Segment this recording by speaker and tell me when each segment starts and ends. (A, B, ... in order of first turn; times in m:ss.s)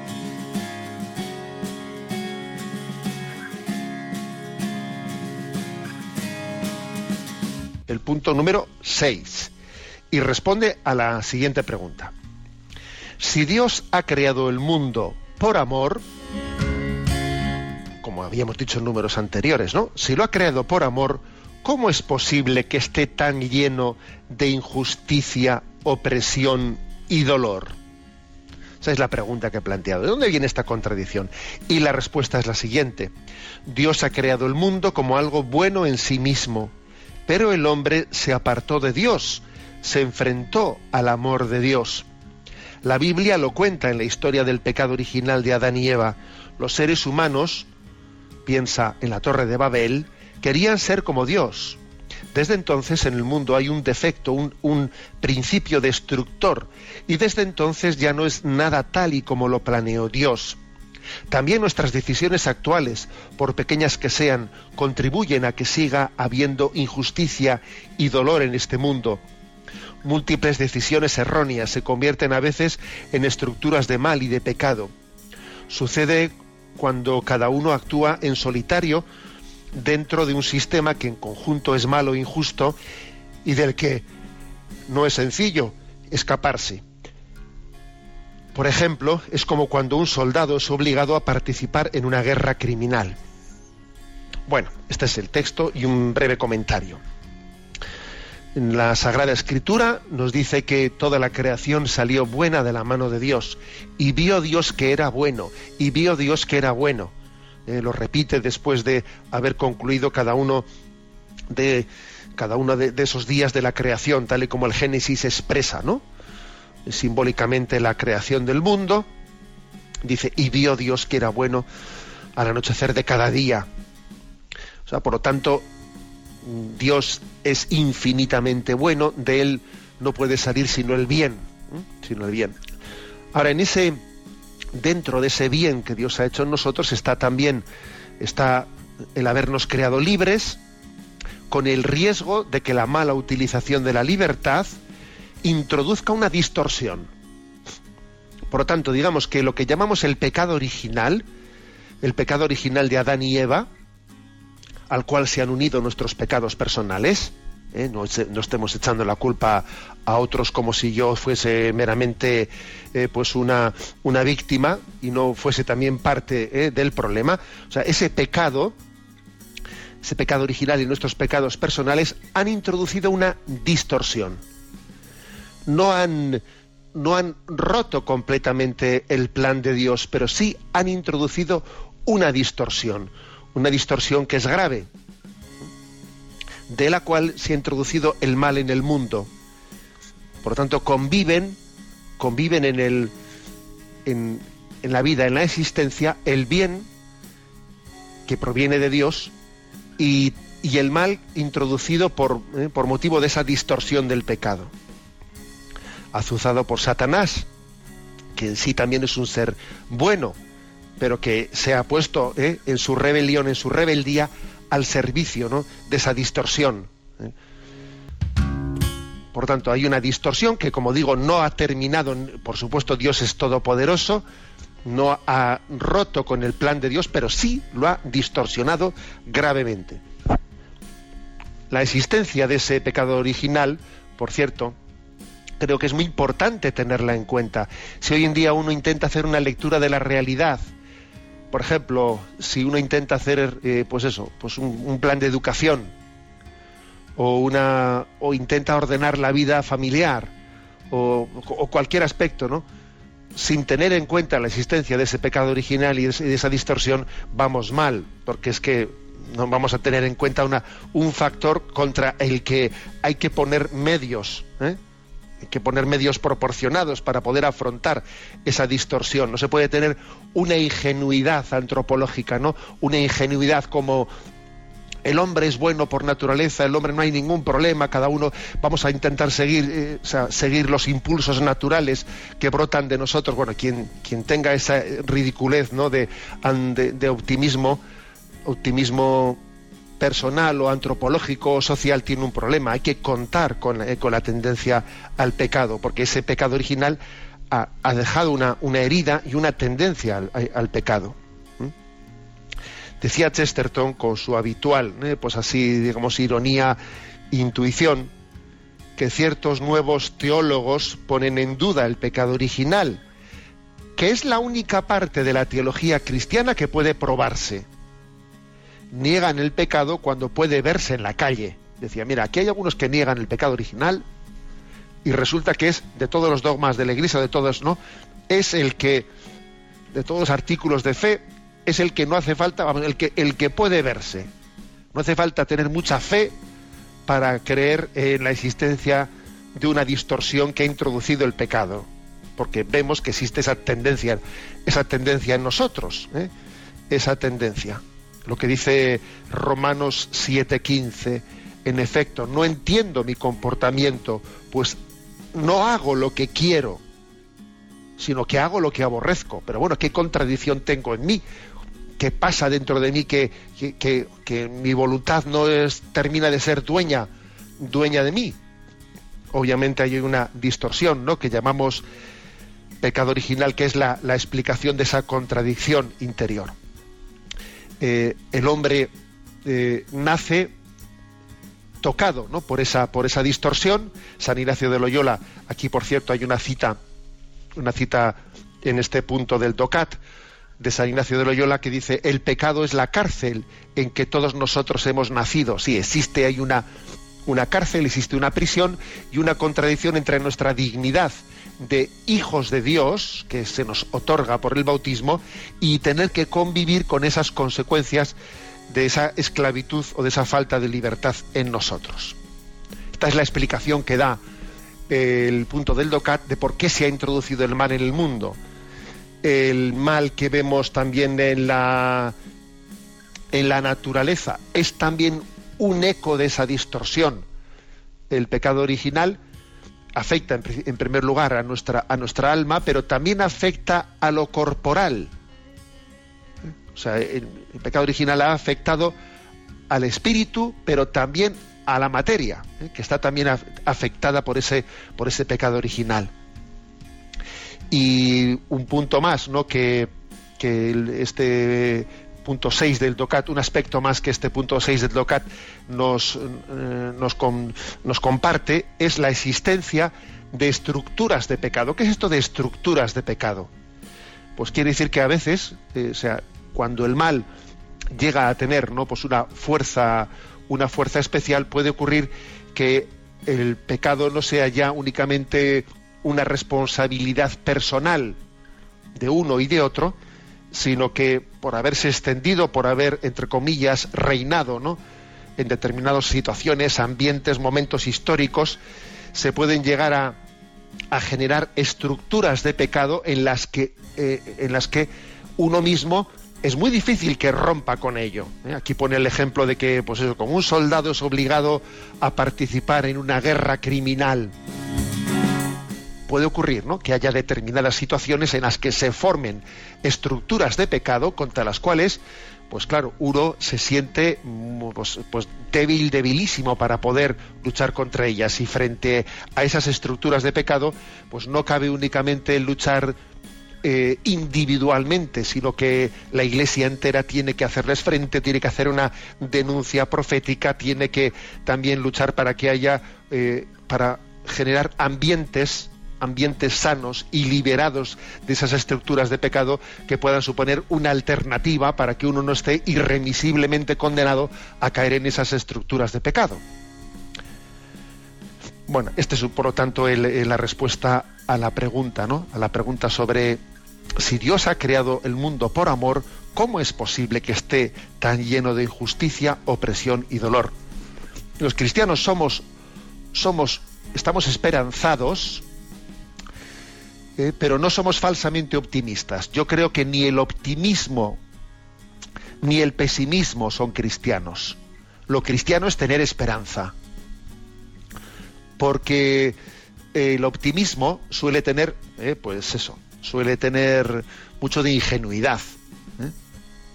0:07.9-0:09.5 A
0:10.1-0:12.1 A
0:13.2-0:16.0 A
0:18.0-0:27.8 A
0:28.8-0:33.1 A
0:33.6-0:36.7 A
0:37.3-0:42.1 A
0:42.8-0:47.7 A
0:48.4-0:51.8 A
0:52.3-1:00.6 A
1:01.3-1:09.2 A
1:10.0-1:14.9 A
1:15.7-1:19.0 A
1:19.7-1:22.8 A
1:23.4-1:24.0 A
1:24.9-1:26.8 A
1:28.5-1:33.2 A
1:34.5-1:37.0 A
1:38.5-1:47.1 A
1:47.7-1:50.6 A
1:51.5-1:56.0 A
1:56.8-1:59.1 A
2:00.0-2:01.6 A
2:02.4-2:03.7 A
2:04.8-2:05.6 A
2:06.4-2:12.6 A
2:13.3-2:14.0 A
2:14.7-2:17.6 A
2:18.2-2:20.6 A
2:21.5-2:24.8 A
2:25.4-2:27.1 A
2:28.5-2:31.2 A
2:32.0-2:33.7 A
2:34.9-2:48.7 A
2:50.0-2:54.4 A
2:55.6-2:56.4 A
2:56.9-3:04.9 A
3:06.7-3:09.3 A
3:10.4-3:11.6 A
3:12.2-3:13.1 A
3:14.0-3:16.9 A
3:18.3-3:19.3 A
3:20.0-3:24.7 A
3:26.1-3:27.5 A
3:28.3-3:30.4 A
3:31.0-3:37.3 A
3:39.3-3:44.2 A
3:44.8-3:50.0 A
3:51.7-3:54.8 A
3:55.6-4:00.6 A
4:01.5-4:05.9 A
4:07.2-4:10.3 A
4:10.9-4:12.6 A
4:13.4-4:24.8 A
4:25.4-4:34.1 A
4:35.0-4:47.8 A
4:48.4-4:49.4 A
4:50.0-4:57.0 A
4:57.5-5:01.7 A
5:03.0-5:06.8 A
5:07.3-5:08.1 A
5:09.0-5:13.0 A
5:14.0-5:17.7 A
5:18.9-5:24.0 A
5:25.0-5:27.8 A
5:28.3-5:29.1 A
5:29.9-5:34.3 A
5:34.9-5:36.3 A
5:37.1-5:46.3 A
5:46.9-5:54.8 A
5:55.3-5:56.8 A
5:58.0-6:01.2 A
6:02.0-6:07.1 A
6:07.6-6:08.4 A
6:09.3-6:11.8 A
6:12.8-6:16.5 A
6:17.8-6:18.9 A
6:19.4-6:20.5 A
6:21.8-6:26.8 A
6:27.6-6:30.0 A
6:30.6-6:36.6 A
6:37.2-6:48.2 A
6:48.7-6:52.2 A
6:52.9-6:54.2 A
6:54.9-6:58.4 A
6:59.2-7:02.1 A
7:03.3-7:07.2 A
7:08.1-7:09.2 A
7:09.9-7:15.1 A
7:16.7-7:18.9 A
7:19.7-7:26.1 A
7:27.7-7:43.5 A
7:44.4-7:47.2 A
7:47.9-7:58.2 A
7:58.9-8:00.0 A
8:00.5-8:04.8 A
8:05.4-8:08.6 A
8:09.1-8:10.2 A
8:10.9-8:24.3 A
8:26.1-8:43.0 A
8:43.6-9:06.4 A
9:08.7-9:13.4 A
9:14.0-9:20.5 A
9:21.4-9:22.4 A
9:23.1-9:25.4 A
9:27.2-9:31.2 A
9:32.4-9:36.7 A
9:38.6-9:39.4 A
9:39.9-9:46.1 A